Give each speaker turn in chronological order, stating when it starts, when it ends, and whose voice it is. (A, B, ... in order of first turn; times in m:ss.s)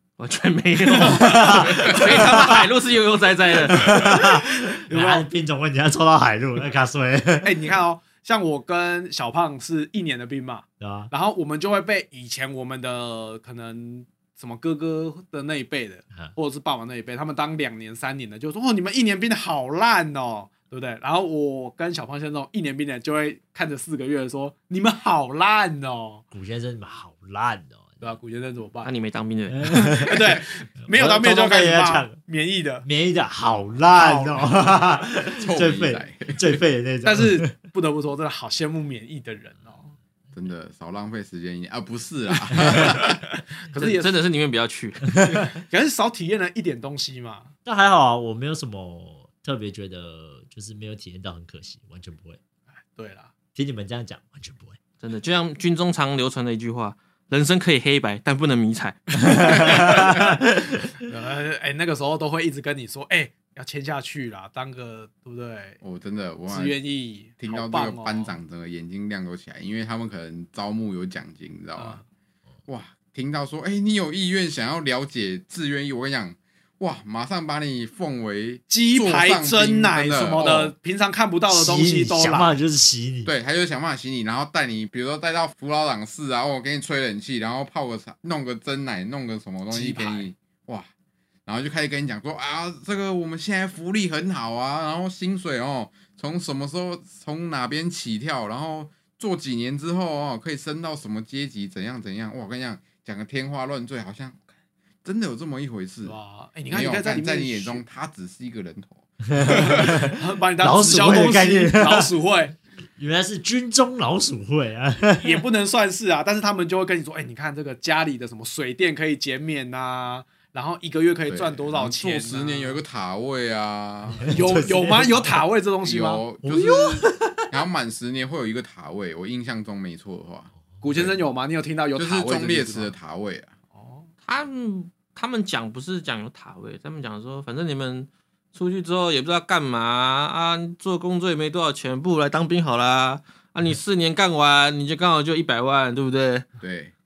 0:00.2-0:04.1 A
0:00.9-0:02.7 B
0:01.0-0:02.1 C
0:03.7-0:07.7 C
0:04.8-0:05.2 B
0:07.4-0:26.2 B
0:10.8-0:11.1 C
0:26.3-0:28.0 C
0:28.0-0:28.9 B
0:28.8-0:30.2 A
0:29.5-0:32.2 C
0:30.0-0:32.8 B
0:32.8-0:37.5 C
0:33.9-0:34.6 B
0:35.2-0:36.5 D
0:37.0-0:39.9 B
0:40.3-0:43.2 D
0:42.7-0:43.2 B
0:43.7-0:44.2 B
0:43.7-0:45.2 A
0:45.2-0:45.5 C
0:45.2-0:47.5 B
0:47.6-0:52.4 C
0:52.9-0:53.3 B
0:53.5-0:54.8 C
0:55.0-1:00.0 A
0:59.2-1:00.8 C
0:59.4-1:00.1 B
1:00.9-1:05.8 B
1:05.8-1:06.8 D
1:06.5-1:08.3 B
1:07.4-1:12.0 D
1:11.8-1:12.0 B
1:12.7-1:20.7 D
1:18.7-1:22.5 B
1:21.5-1:23.3 C
1:23.2-1:30.9 D
1:29.7-1:30.3 B
1:31.4-1:44.4 D
1:45.0-1:46.2 D
1:46.0-1:47.8 B
1:46.7-1:49.9 D
1:49.4-1:52.1 C
1:49.4-1:52.5 B
1:53.0-1:55.4 C
1:55.2-2:02.8 B
2:01.3-2:04.6 D
2:04.1-2:05.5 C
2:04.3-2:06.2 B
2:05.8-2:11.2 D
2:06.4-2:07.6 C
2:10.8-2:12.9 B
2:12.0-2:13.5 D
2:13.7-2:14.1 B
2:14.2-2:26.4 A
2:26.6-2:26.9 D